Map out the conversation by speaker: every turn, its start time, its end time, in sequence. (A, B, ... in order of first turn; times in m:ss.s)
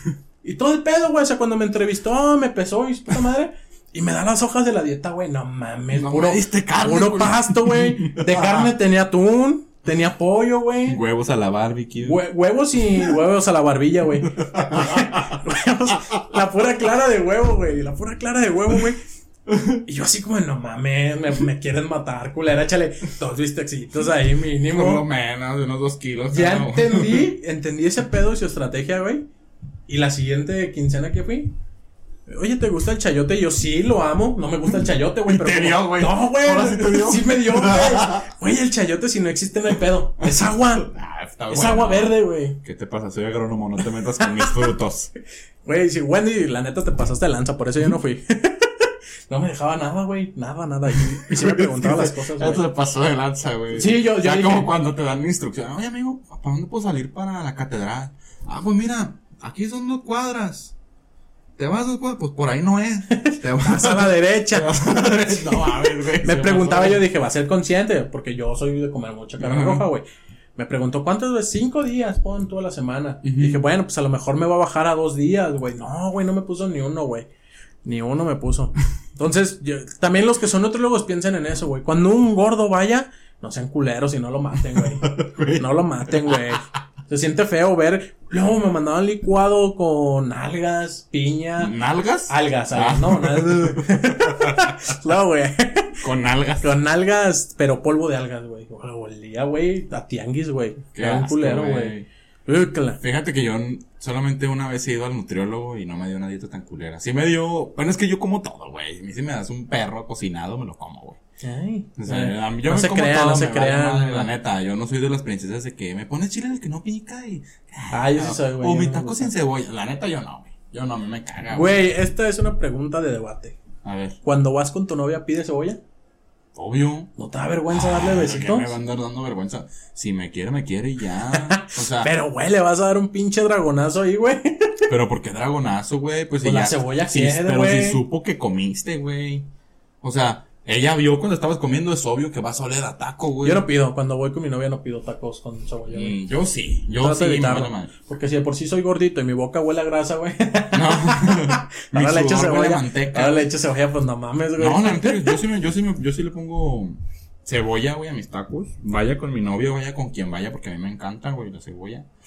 0:00.4-0:11.0 A
0:05.9-0:08.8 B
0:10.9-0:12.2 B
0:12.0-0:19.0 A
0:14.3-0:15.4 B
0:19.5-0:19.8 B
0:19.9-0:25.0 A
0:24.7-0:27.3 B
0:26.3-0:29.3 A
0:29.9-0:31.5 A
0:32.3-0:40.9 A
0:35.2-0:38.3 B
0:40.2-0:45.1 B
0:41.5-0:42.6 A
0:44.2-0:44.5 A
0:45.6-0:52.6 A
0:51.1-1:00.8 B
0:53.7-0:54.7 A
1:01.6-1:07.0 B
1:03.1-1:10.0 A
1:09.4-1:09.9 B
1:10.6-1:17.3 A
1:13.2-1:13.6 B
1:17.8-1:31.8 A
1:24.6-1:26.6 B
1:31.6-1:34.9 B
1:32.3-1:36.0 A
1:36.0-1:36.7 B
1:36.6-1:43.0 A
1:41.0-1:42.1 B
1:43.0-1:51.2 B
1:51.4-1:54.3 A
1:52.0-2:01.8 B
1:57.9-1:59.3 A
2:01.5-2:03.6 A
2:03.8-2:04.2 B
2:04.2-2:05.8 A
2:06.6-2:07.1 B
2:07.2-2:08.8 A
2:07.7-2:12.1 B
2:11.3-2:14.8 A
2:14.9-2:19.5 B
2:16.4-2:18.0 A
2:20.0-2:23.7 B
2:23.4-2:26.2 A
2:25.9-2:27.9 B
2:27.0-2:35.4 A
2:30.7-2:33.5 B
2:34.6-2:42.1 B